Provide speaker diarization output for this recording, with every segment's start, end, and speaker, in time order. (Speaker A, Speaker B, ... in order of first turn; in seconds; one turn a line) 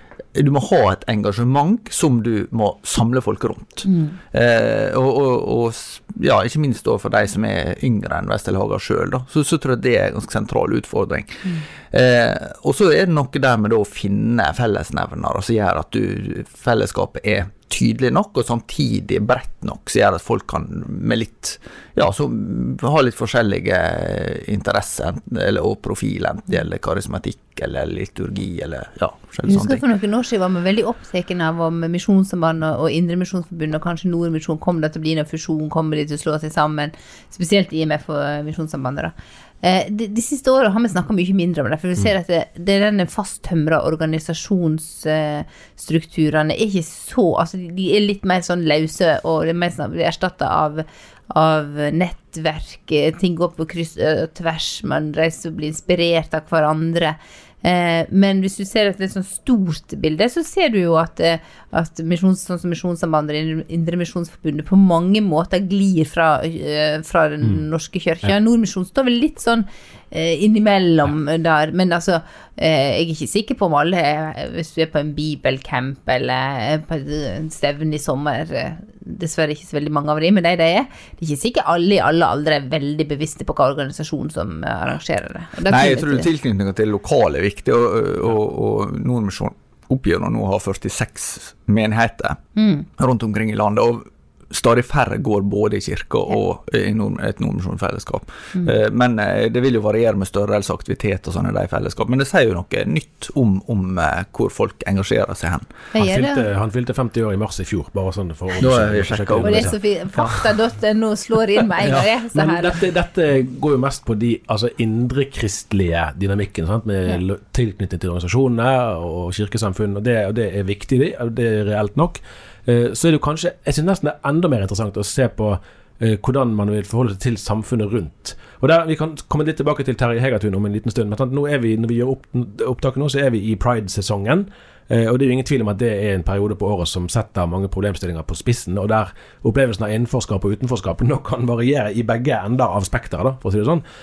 Speaker A: 0.3-29.8
Speaker B: 3.9-4.2
Speaker B: 29.5-86.3
Speaker A: 85.7-92.4
Speaker B: 92.6-92.9
Speaker A: 93.0-105.7
Speaker B: 105.9-106.4
Speaker C: 106.0-110.4
Speaker A: 108.6-109.7
Speaker B: 109.5-112.7
Speaker C: 111.8-143.8